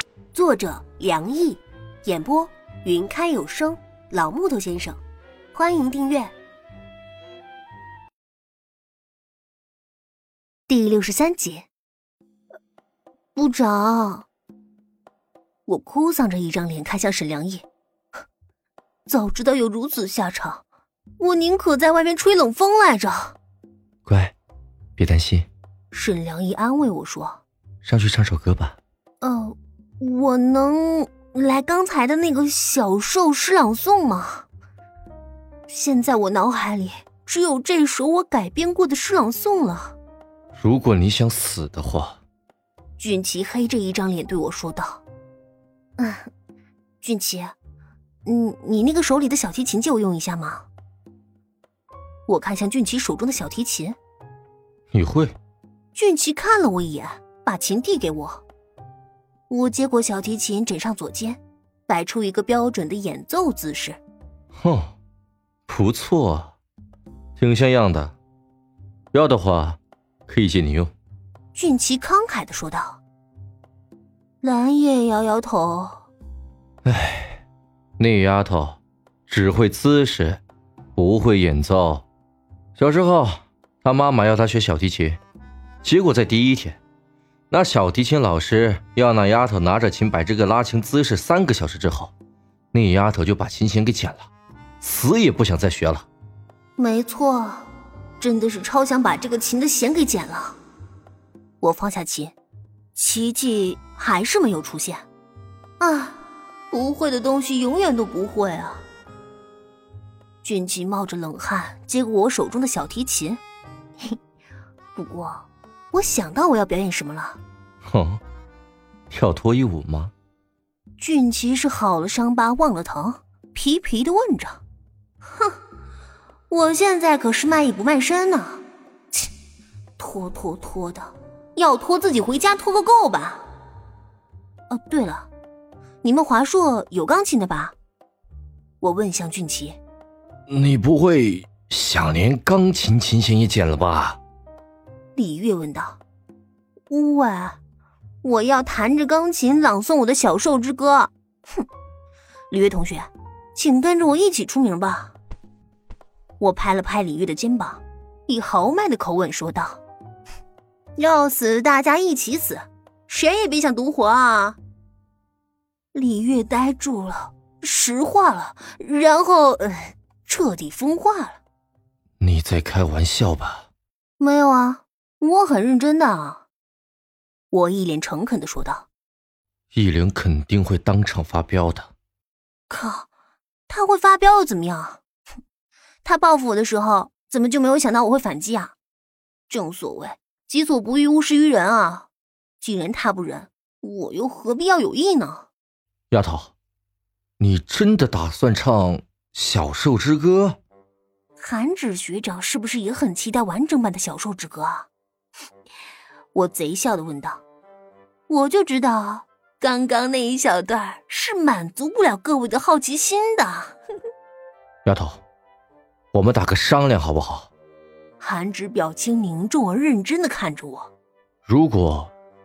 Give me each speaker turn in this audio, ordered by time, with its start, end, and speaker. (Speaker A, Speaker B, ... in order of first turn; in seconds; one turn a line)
Speaker A: 0.3-5.0
Speaker A: 5.5-6.3
Speaker A: 10.7-11.7
Speaker A: 13.3-14.3
Speaker A: 15.7-17.6
Speaker A: 19.1-20.6
Speaker A: 21.2-23.3
Speaker B: 24.0-24.3
Speaker B: 25.0-25.5
Speaker A: 25.9-27.4
Speaker B: 27.8-28.8
Speaker A: 29.2-34.5
Speaker A: 35.7-40.0
Speaker B: 40.5-42.2
Speaker A: 43.0-45.0
Speaker A: 46.0-46.3
Speaker A: 47.0-47.5
Speaker A: 48.2-50.7
Speaker A: 52.3-54.0
Speaker B: 54.9-55.3
Speaker A: 55.9-58.4
Speaker A: 59.5-64.0
Speaker B: 64.6-64.9
Speaker B: 65.7-66.5
Speaker B: 67.4-68.2
Speaker B: 69.1-70.9
Speaker A: 71.5-73.0
Speaker A: 74.4-76.1
Speaker B: 76.8-77.4
Speaker B: 78.0-80.4
Speaker B: 81.0-82.0
Speaker B: 82.8-85.2
Speaker B: 85.8-86.8
Speaker B: 87.5-92.1
Speaker B: 92.7-94.3
Speaker B: 94.8-96.0
Speaker A: 96.8-100.6
Speaker A: 101.6-102.3
Speaker A: 102.9-105.0
Speaker A: 105.8-106.2
Speaker A: 106.7-108.8
Speaker A: 110.4-113.4
Speaker A: 114.9-117.4
Speaker B: 117.9-118.2
Speaker B: 119.1-120.1
Speaker A: 121.0-124.6
Speaker A: 126.5-129.2
Speaker A: 130.0-133.4
Speaker A: 134.7-135.3
Speaker A: 136.0-137.7
Speaker A: 138.8-139.8
Speaker B: 140.5-144.2
Speaker A: 145.2-146.0
Speaker A: 146.9-147.6
Speaker A: 148.2-151.6
Speaker A: 152.5-155.1
Speaker A: 156.4-159.8
Speaker A: 160.9-164.6
Speaker A: 165.9-171.4
Speaker B: 172.2-173.7
Speaker A: 174.2-176.4
Speaker A: 177.5-178.9
Speaker B: 179.7-181.9
Speaker A: 182.7-183.1
Speaker A: 183.7-185.0
Speaker A: 186.0-188.7
Speaker A: 189.5-192.1
Speaker A: 192.6-195.5
Speaker B: 196.1-196.5
Speaker B: 197.4-200.6
Speaker A: 201.4-204.9
Speaker A: 206.3-207.4
Speaker A: 208.3-213.8
Speaker B: 214.8-215.2
Speaker B: 216.1-217.5
Speaker A: 218.2-220.9
Speaker B: 221.5-222.1